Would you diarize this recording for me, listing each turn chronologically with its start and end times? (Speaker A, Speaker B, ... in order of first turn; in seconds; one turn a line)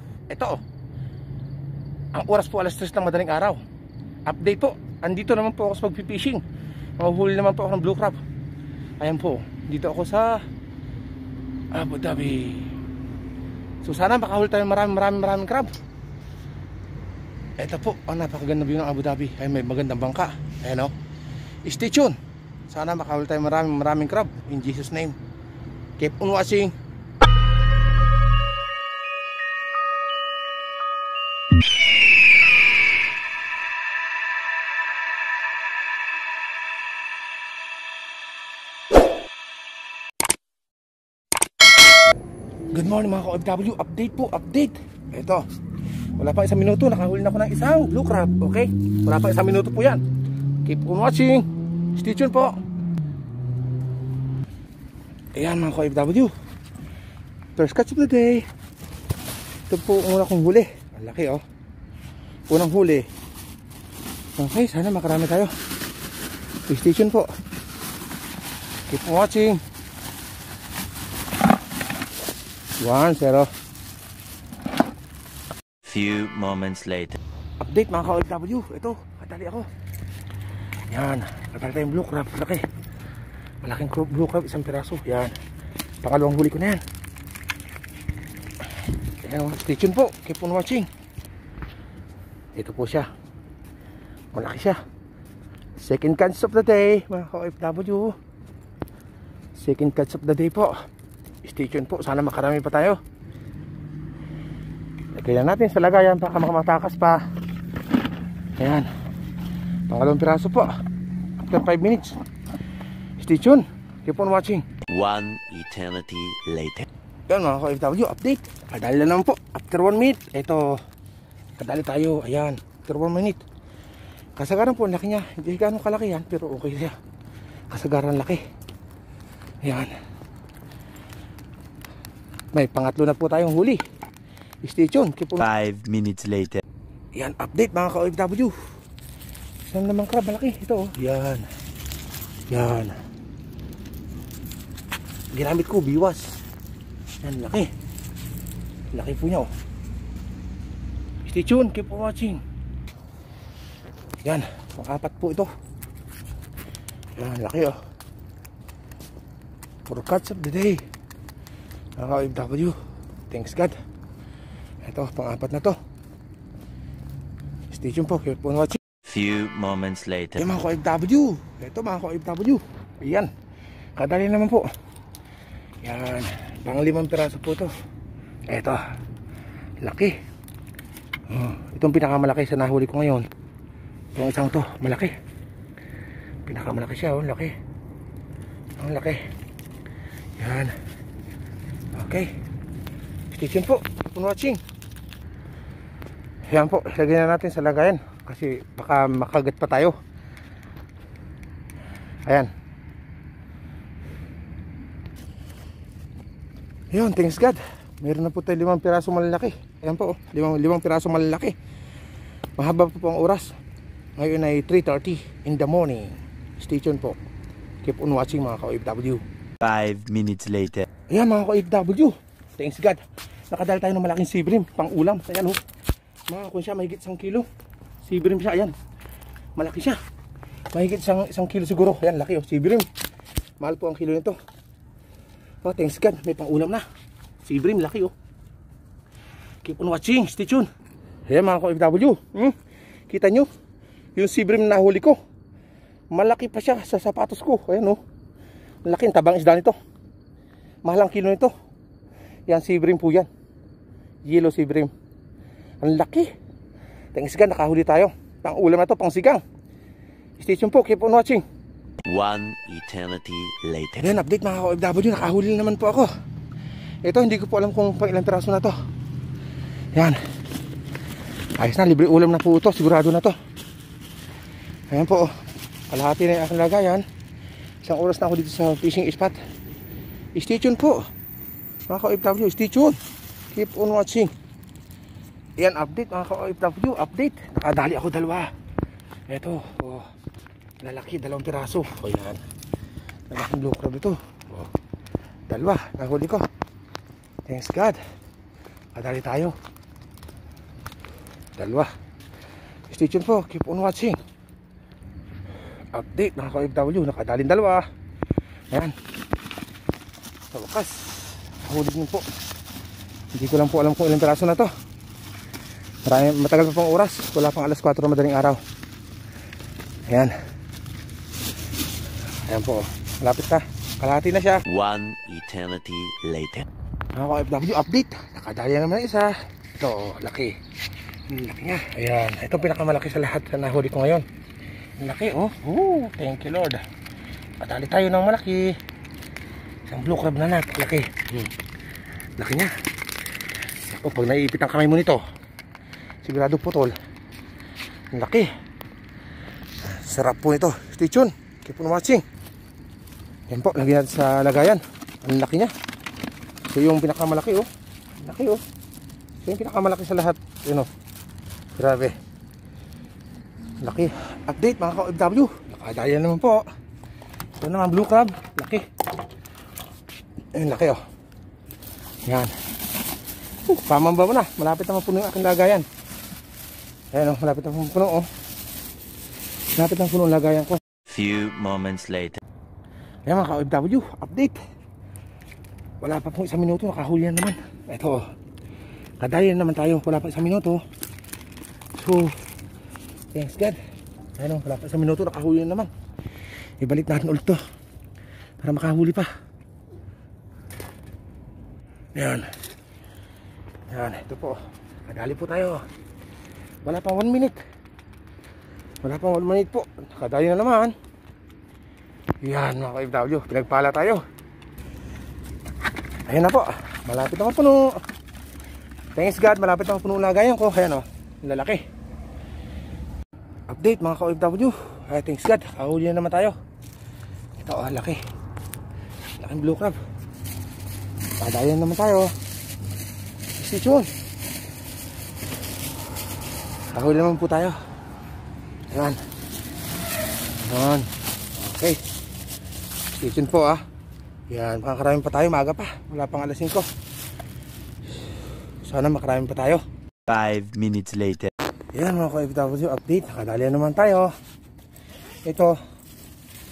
Speaker A: 0.3-0.6
Speaker A: 2.1-3.6
Speaker A: 4.3-6.4
Speaker A: 7.0-8.2
Speaker A: 9.0-10.4
Speaker A: 11.7-12.7
Speaker A: 13.8-15.7
Speaker A: 17.6-20.9
Speaker A: 21.6-22.2
Speaker A: 22.7-25.2
Speaker A: 26.0-26.7
Speaker A: 42.7-45.5
Speaker A: 46.2-50.0
Speaker A: 50.6-52.6
Speaker A: 55.4-56.3
Speaker A: 57.6-58.5
Speaker A: 59.7-61.4
Speaker A: 62.5-63.1
Speaker A: 64.4-65.5
Speaker A: 66.7-67.3
Speaker A: 68.9-69.6
Speaker A: 72.8-73.5
Speaker B: 75.8-77.2
Speaker A: 77.6-79.7
Speaker A: 80.9-82.6
Speaker A: 83.6-85.3
Speaker A: 86.0-86.8
Speaker A: 89.2-90.9
Speaker A: 92.5-93.1
Speaker A: 94.3-94.8
Speaker A: 95.8-98.2
Speaker A: 99.6-100.8
Speaker A: 101.4-103.0
Speaker A: 105.2-107.2
Speaker A: 108.6-108.9
Speaker A: 109.9-110.7
Speaker A: 111.4-112.2
Speaker A: 113.2-114.7
Speaker B: 114.9-116.9
Speaker A: 117.3-120.8
Speaker A: 121.6-123.4
Speaker A: 124.4-126.9
Speaker A: 127.7-128.4
Speaker A: 129.6-129.9
Speaker A: 132.5-133.8
Speaker A: 134.6-135.5
Speaker B: 135.4-136.6
Speaker A: 137.2-138.6
Speaker A: 139.7-141.5
Speaker A: 142.5-143.0
Speaker A: 145.3-146.4
Speaker A: 147.2-147.7
Speaker A: 148.9-149.5
Speaker A: 151.2-152.4
Speaker A: 154.2-155.5
Speaker A: 157.2-157.8
Speaker A: 159.9-160.8
Speaker A: 162.0-162.8
Speaker A: 163.3-163.8
Speaker A: 164.8-165.8
Speaker A: 167.7-168.8
Speaker B: 169.1-170.4
Speaker A: 170.4-173.3
Speaker A: 174.0-174.7
Speaker A: 175.8-177.7
Speaker A: 178.5-178.8
Speaker A: 179.8-180.2
Speaker A: 181.3-183.3
Speaker A: 184.2-185.2
Speaker A: 186.4-187.6
Speaker A: 188.8-189.2
Speaker A: 190.4-190.8
Speaker A: 191.9-192.3
Speaker A: 193.3-194.6
Speaker A: 196.5-199.9
Speaker A: 206.9-211.5
Speaker A: 212.6-213.5
Speaker A: 214.2-217.2
Speaker A: 217.8-219.2
Speaker B: 219.6-220.9
Speaker A: 221.1-225.6
Speaker A: 226.3-227.5
Speaker A: 228.1-228.7
Speaker A: 229.6-230.0
Speaker A: 230.7-232.9
Speaker A: 233.6-234.4
Speaker A: 235.6-236.8
Speaker A: 237.5-238.1
Speaker A: 239.6-240.7
Speaker A: 241.3-242.5
Speaker A: 243.1-243.5
Speaker A: 244.2-245.2
Speaker A: 246.1-248.0
Speaker A: 248.8-249.8
Speaker A: 250.8-251.5
Speaker A: 252.5-253.3
Speaker A: 254.3-254.9
Speaker A: 255.8-256.3
Speaker A: 257.1-259.4
Speaker A: 260.4-261.4
Speaker B: 262.1-264.1
Speaker A: 264.0-266.1
Speaker A: 267.1-268.7
Speaker A: 271.6-273.3
Speaker A: 274.9-275.3
Speaker A: 275.9-277.1
Speaker A: 277.8-279.4
Speaker A: 280.4-281.1
Speaker A: 281.9-283.0
Speaker A: 283.5-284.3
Speaker A: 285.6-288.5
Speaker A: 289.3-290.1
Speaker A: 290.8-292.4
Speaker A: 293.3-294.7
Speaker A: 295.5-296.5
Speaker A: 297.5-298.0
Speaker A: 298.9-299.6
Speaker A: 301.6-301.9
Speaker A: 302.9-304.2
Speaker A: 305.9-307.9
Speaker A: 310.5-312.3
Speaker A: 313.3-314.7
Speaker A: 316.1-318.6
Speaker A: 320.1-320.3
Speaker A: 322.5-324.6
Speaker B: 324.7-326.7
Speaker A: 327.1-330.6
Speaker A: 331.3-334.2
Speaker A: 335.0-336.8
Speaker A: 337.6-338.8
Speaker A: 339.9-341.5
Speaker A: 342.4-342.7
Speaker A: 343.8-345.2
Speaker A: 346.2-347.0
Speaker A: 348.1-348.5
Speaker A: 349.8-352.2
Speaker A: 353.5-355.7
Speaker A: 356.7-357.7
Speaker A: 358.2-358.6
Speaker A: 359.4-360.9
Speaker A: 361.8-362.1
Speaker A: 363.8-366.6
Speaker A: 367.6-368.8
Speaker A: 370.6-371.0
Speaker A: 372.3-372.5
Speaker A: 373.7-375.9
Speaker A: 377.1-378.3
Speaker A: 379.8-380.8
Speaker B: 381.1-382.4
Speaker A: 383.3-384.6
Speaker A: 386.0-388.2
Speaker A: 389.2-390.8
Speaker A: 392.0-392.3
Speaker A: 393.3-393.8
Speaker A: 394.4-395.9
Speaker A: 396.8-397.6
Speaker A: 398.6-399.3
Speaker A: 402.1-402.5
Speaker A: 403.9-405.8
Speaker A: 406.9-407.6
Speaker A: 409.0-410.9
Speaker A: 412.4-414.2
Speaker A: 416.3-418.0
Speaker A: 419.1-421.8
Speaker A: 423.7-426.6
Speaker A: 427.6-428.2
Speaker A: 429.4-430.0
Speaker A: 431.4-432.3
Speaker A: 433.6-434.1
Speaker A: 436.9-437.8
Speaker A: 438.9-439.2
Speaker A: 440.6-442.0
Speaker A: 443.2-443.8
Speaker A: 444.5-446.9
Speaker A: 448.8-449.8
Speaker B: 450.3-451.5
Speaker A: 451.9-454.3
Speaker A: 455.4-455.8